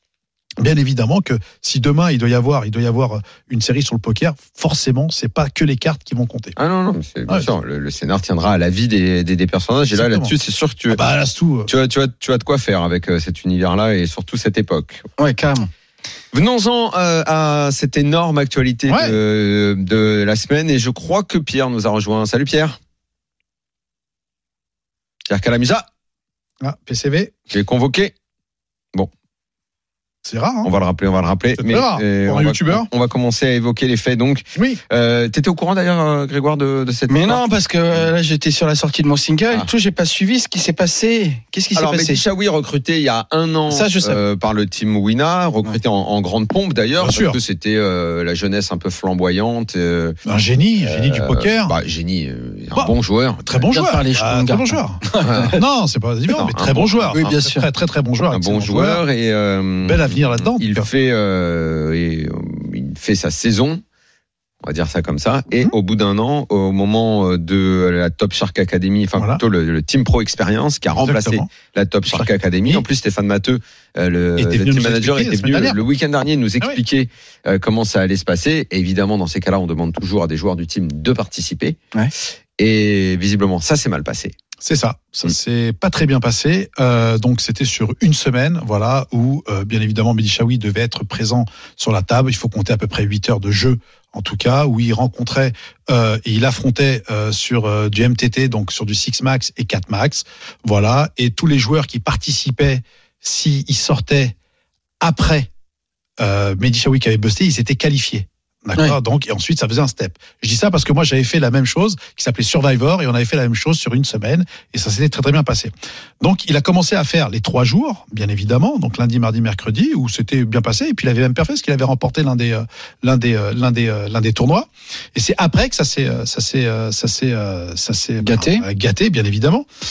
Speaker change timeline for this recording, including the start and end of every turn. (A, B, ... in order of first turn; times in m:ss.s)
0:00.6-0:06.5 A
0:06.6-0:11.0 B
0:09.9-0:10.3 A
0:10.9-0:11.7 A
0:11.7-0:15.0 B
0:15.2-0:15.7 C
0:16.3-0:22.8 B
0:18.9-0:19.1 A
0:25.3-0:25.9 B
0:26.6-0:27.3 A
0:27.5-0:28.1 B
0:30.2-0:30.7 A
0:30.6-0:37.4 B
0:31.6-0:32.9 A
0:34.5-0:34.8 A
0:37.1-0:42.2 C
0:41.7-0:50.2 B
0:43.7-0:44.2 C
0:47.0-0:47.4 A
0:50.2-0:51.7 A
0:50.8-0:53.6 B
0:52.7-0:59.0 A
0:53.7-0:55.6 C
0:55.2-0:55.5 B
0:56.3-0:57.3 B
0:57.1-0:57.7 C
0:58.3-1:03.8 B
0:59.8-1:00.9 A
1:04.6-1:21.8 B
1:11.0-1:11.5 A
1:12.1-1:12.8 A
1:14.4-1:15.8 A
1:22.6-1:24.4 B
1:24.6-1:44.3 A
1:45.0-1:45.5 A
1:46.2-2:09.7 A
2:08.2-2:08.6 C